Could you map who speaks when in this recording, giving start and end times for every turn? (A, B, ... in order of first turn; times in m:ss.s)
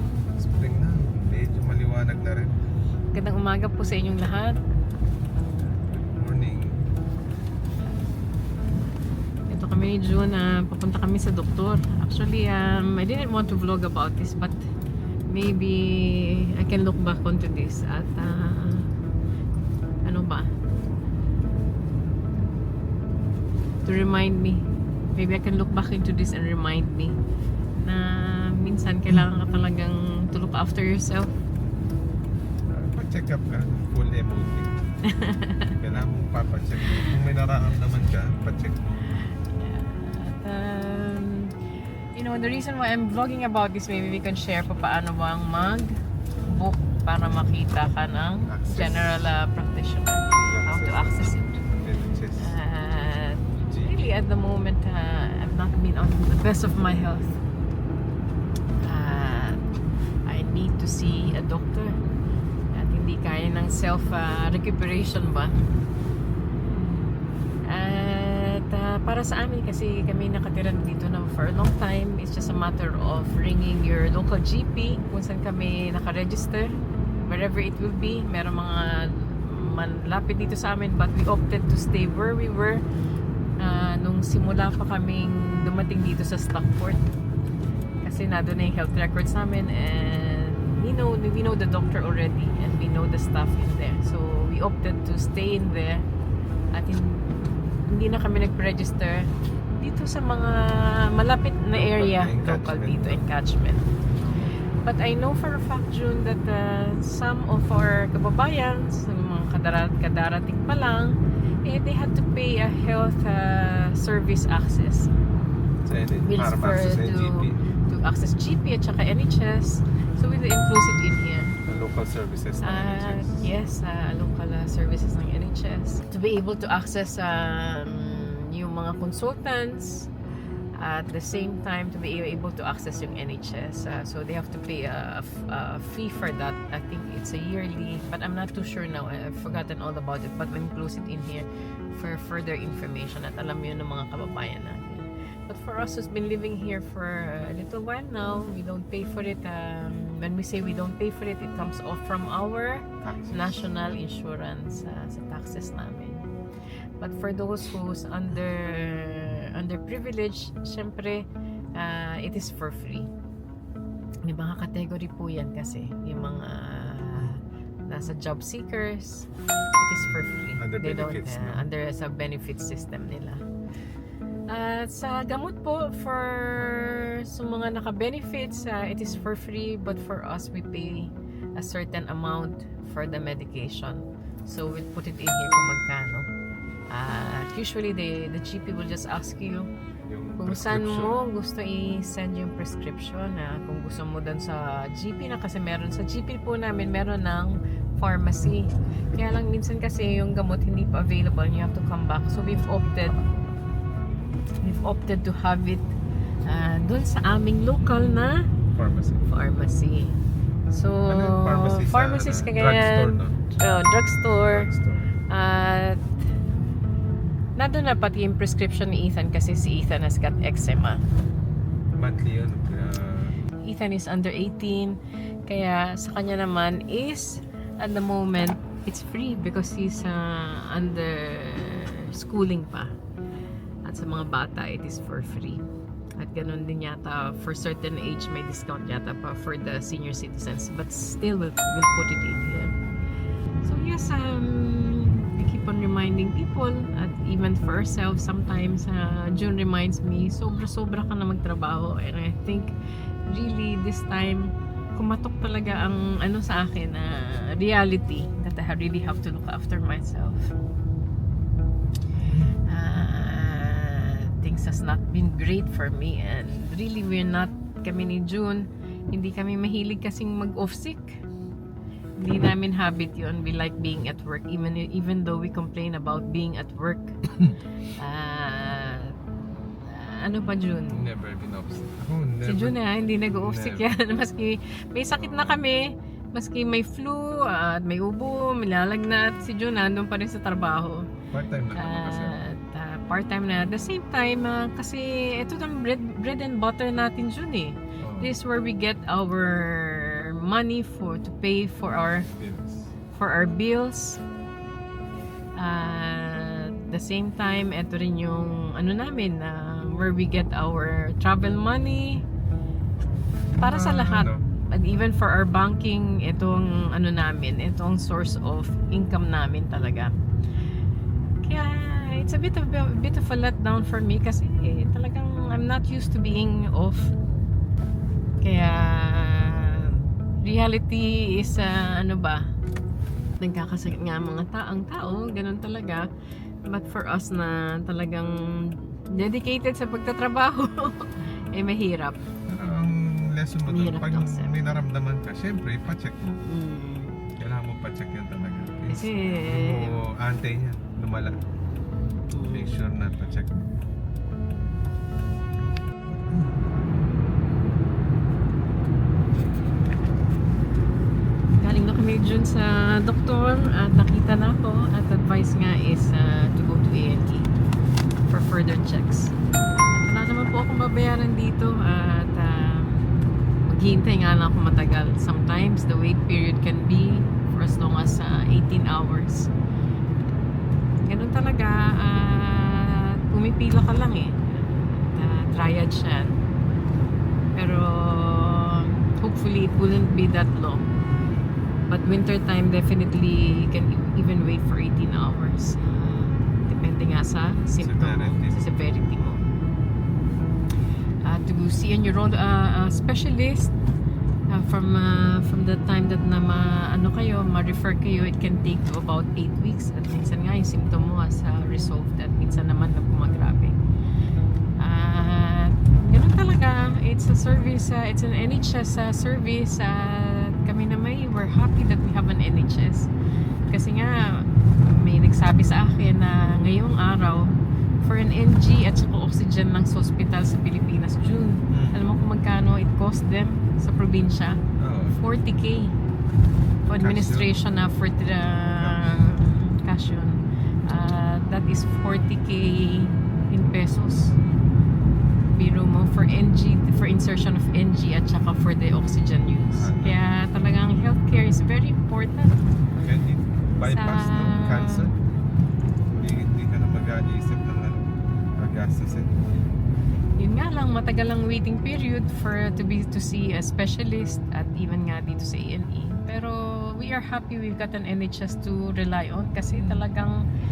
0:00.4-0:02.6 A
0:03.1-0:04.6 B
0:05.9-0:06.7 A
0:09.5-0:14.6 B
0:15.3-0:18.9 B
0:20.0-0:20.5 B
0:23.8-0:27.2 B
0:27.8-0:31.3 B
0:32.7-0:34.8 A
0:35.0-0:35.8 B
0:35.7-0:39.0 A
0:39.5-0:41.5 B
0:42.1-0:45.9 B
0:46.4-0:51.6 B
0:48.5-0:49.3 A
0:50.4-0:52.5 A
0:52.4-0:57.4 B
0:53.6-0:54.0 A
0:58.8-0:59.6 B
1:00.2-1:02.0 B
1:02.7-1:05.6 B
1:07.7-1:16.7 B
1:17.2-1:22.8 B
1:23.6-1:27.1 B
1:28.0-1:36.0 B
1:36.7-1:43.9 B
1:41.7-1:43.2 A
1:44.2-1:44.5 A
1:44.8-1:55.1 B
1:55.8-1:57.7 A
1:56.2-2:01.6 B
2:01.6-2:03.4 A
2:02.6-2:10.1 B
2:10.8-2:36.2 B
2:33.0-2:33.7 A
2:37.0-2:43.1 B
2:44.2-2:53.4 B
2:50.6-2:51.6 A
2:54.5-3:06.3 B
3:06.9-3:09.7 B
3:10.0-3:11.2 A
3:10.4-3:23.2 B
3:24.6-3:25.9 B
3:26.4-3:28.5 B
3:28.7-3:29.2 A
3:29.3-3:30.2 B
3:30.7-3:34.7 B
3:31.1-3:33.4 A
3:34.5-3:35.1 A
3:35.3-3:36.0 B
3:37.6-3:41.0 B
3:42.0-3:43.4 A
3:43.6-3:52.9 B
3:53.8-3:55.6 B
3:56.2-4:02.8 B
4:03.6-4:12.7 B
4:13.3-4:20.5 B
4:22.6-4:31.2 B
4:32.2-4:37.2 B
4:37.9-4:39.2 B
4:39.8-4:41.1 B
4:40.9-4:43.9 A
4:42.4-4:51.1 B
4:45.1-4:45.6 A
4:51.3-4:52.4 A
4:51.7-5:02.3 B
4:58.0-4:58.4 A
5:02.2-5:02.9 A
5:03.1-5:04.2 B
5:05.6-5:12.2 B
5:13.5-5:14.4 A
5:13.6-5:20.2 B
5:21.4-5:27.1 B
5:28.4-5:32.5 B
5:33.4-5:36.1 B
5:36.6-5:42.7 B
5:42.5-5:46.4 A
5:43.6-5:44.5 B
5:46.4-5:47.2 B
5:47.4-5:51.4 A
5:48.9-5:50.0 B
5:52.3-5:52.8 B
5:52.5-5:53.7 A
5:56.3-5:56.6 A
6:01.6-6:07.5 B
6:08.3-6:09.3 B
6:09.9-6:13.1 B
6:13.7-6:19.5 B
6:21.1-6:26.4 B
6:27.6-6:30.9 B
6:31.9-6:39.5 B
6:37.8-6:39.4 A
6:41.2-6:43.7 B
6:44.5-6:53.8 B
6:54.8-7:03.1 B
7:03.7-7:14.6 B
7:11.7-7:12.0 A
7:14.8-7:15.2 A
7:15.1-7:15.9 B
7:16.9-7:24.4 B
7:17.0-7:17.5 A
7:18.8-7:19.4 A
7:25.5-7:32.6 B
7:29.7-7:30.2 A
7:33.0-7:35.1 A
7:33.8-7:35.1 B
7:36.1-7:39.8 A
7:40.4-7:50.4 B